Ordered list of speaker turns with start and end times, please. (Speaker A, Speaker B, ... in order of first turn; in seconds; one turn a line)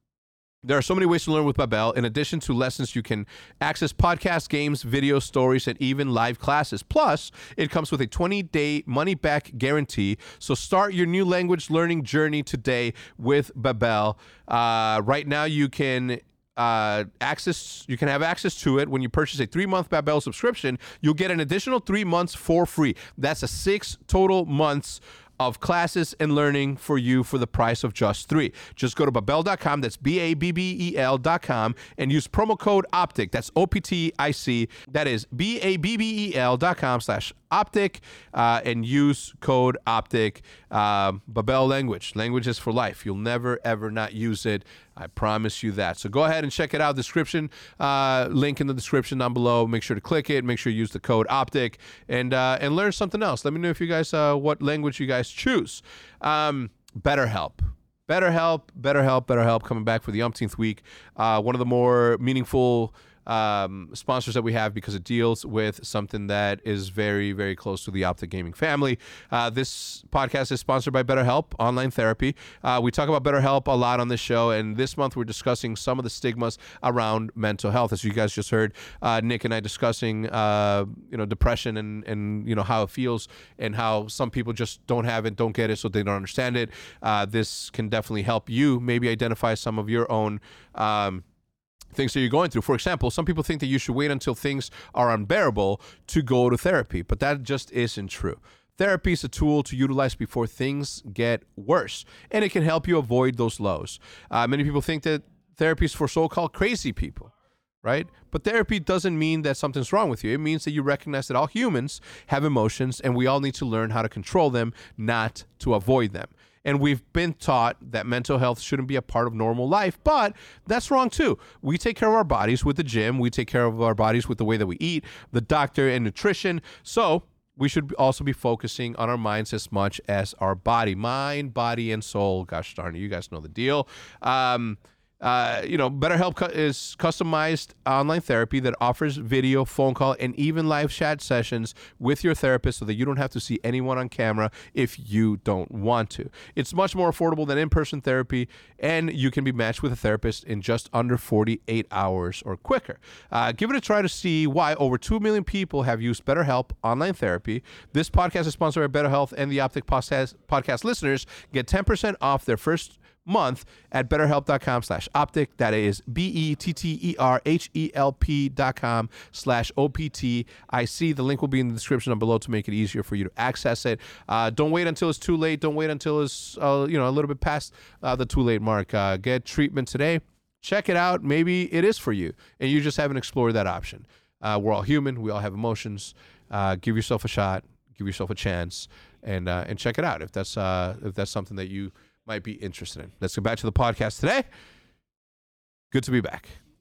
Speaker A: 0.6-91.2
Speaker A: 91.9-107.3
Speaker A: 107.8-194.4
Speaker A: 195.9-196.6